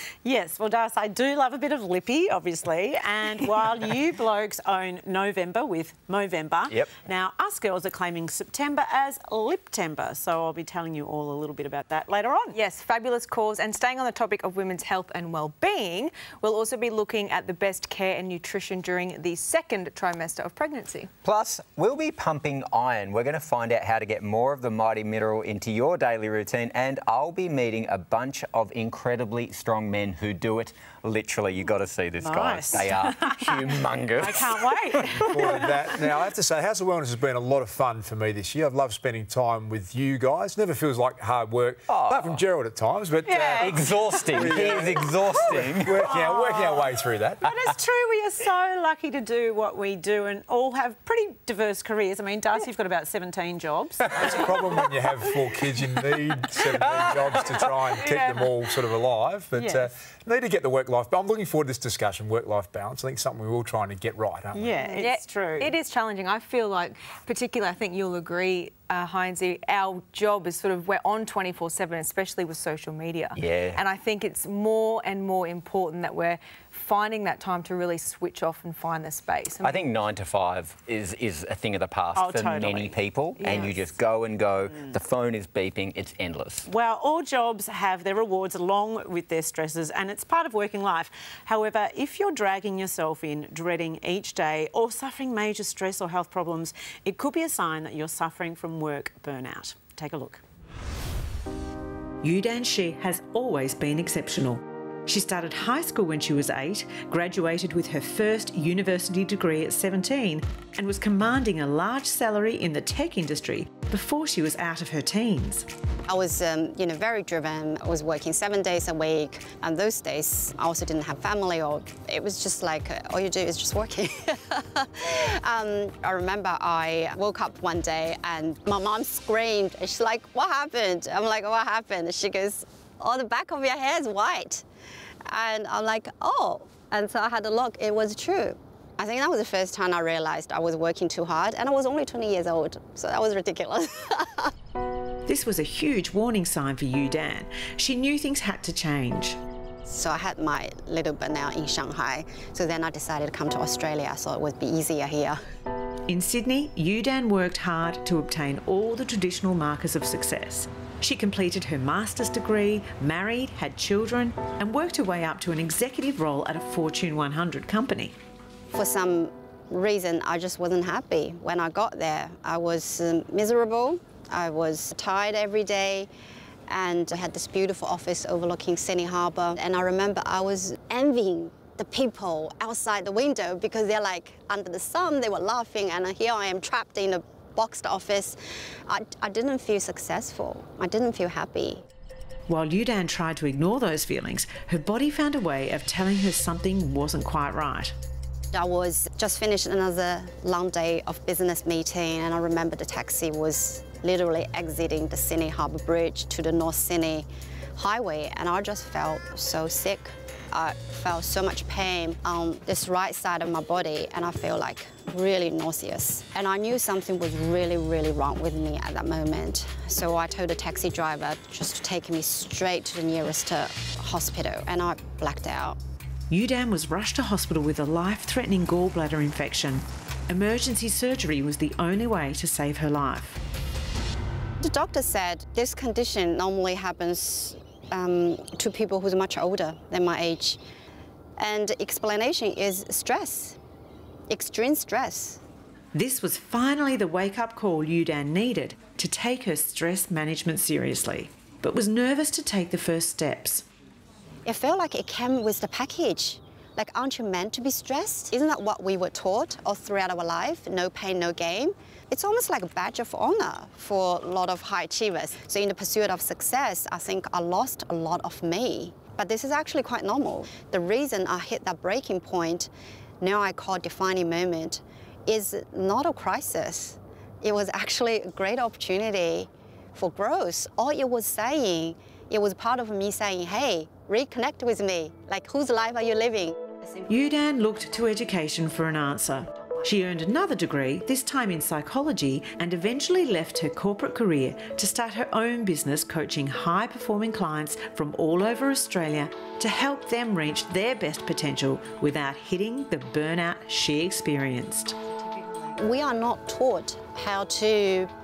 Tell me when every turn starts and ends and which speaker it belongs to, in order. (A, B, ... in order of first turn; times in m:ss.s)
0:00.2-0:12.6 A
0:12.5-0:21.1 B
0:21.2-0:35.5 C
0:32.2-0:36.1 A
0:35.2-0:47.5 D
0:41.9-0:42.4 C
0:43.2-0:46.9 A
0:43.6-0:46.1 C
0:47.4-0:54.5 A
0:54.2-1:04.8 D
0:56.6-0:57.7 C
1:04.6-1:05.7 A
1:04.8-1:19.9 B
1:13.4-1:13.8 C
1:19.6-1:26.7 C
1:22.2-1:23.8 A
1:23.4-1:23.7 B
1:26.7-1:40.4 A
1:42.2-1:55.7 A
1:56.1-2:14.6 E
2:15.3-2:24.5 E
2:25.3-2:29.4 A
2:29.9-2:35.4 E
2:36.1-2:48.1 A
2:48.7-2:56.1 E
2:56.7-3:11.8 E
3:12.5-3:18.0 A
3:18.5-3:45.8 E
3:46.3-3:53.4 A
3:54.6-4:00.6 E
4:01.4-4:03.6 E
4:04.3-4:05.4 E
4:05.9-4:13.6 A
4:14.5-4:32.7 E
4:33.2-4:47.1 E
4:47.1-5:05.0 A
5:05.8-5:08.1 E